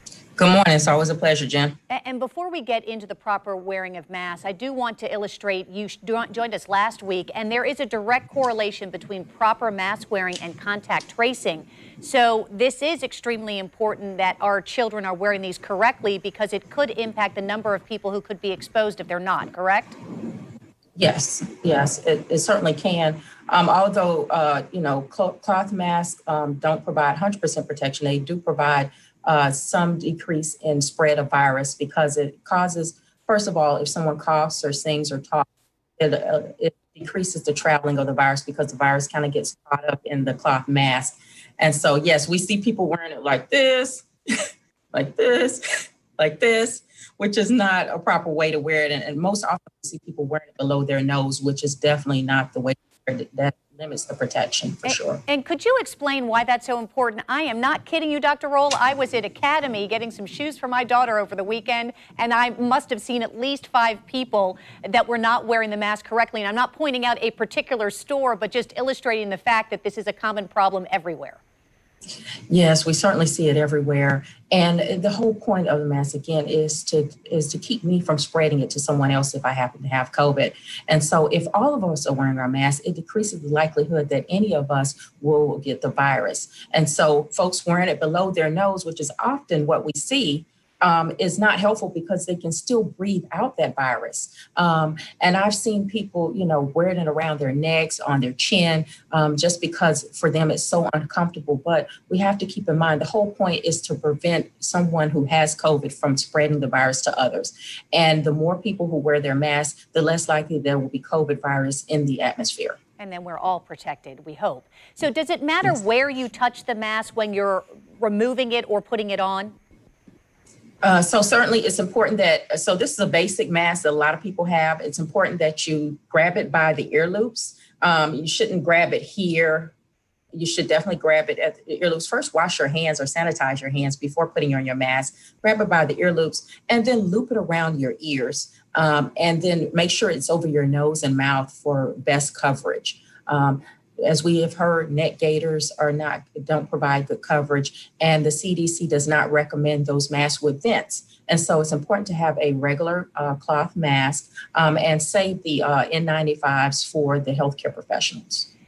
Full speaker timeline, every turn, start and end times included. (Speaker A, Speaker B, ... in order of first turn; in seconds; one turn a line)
Speaker A: 0.4-1.8
Speaker B: 1.9-20.0
Speaker A: 21.0-35.5
Speaker A: 36.0-44.1
Speaker A: 44.9-45.6
Speaker A: 46.2-55.2
Speaker B: 54.9-71.4
Speaker A: 72.5-112.8
Speaker B: 113.0-119.6
Speaker A: 120.8-129.7
Speaker A: 130.3-158.5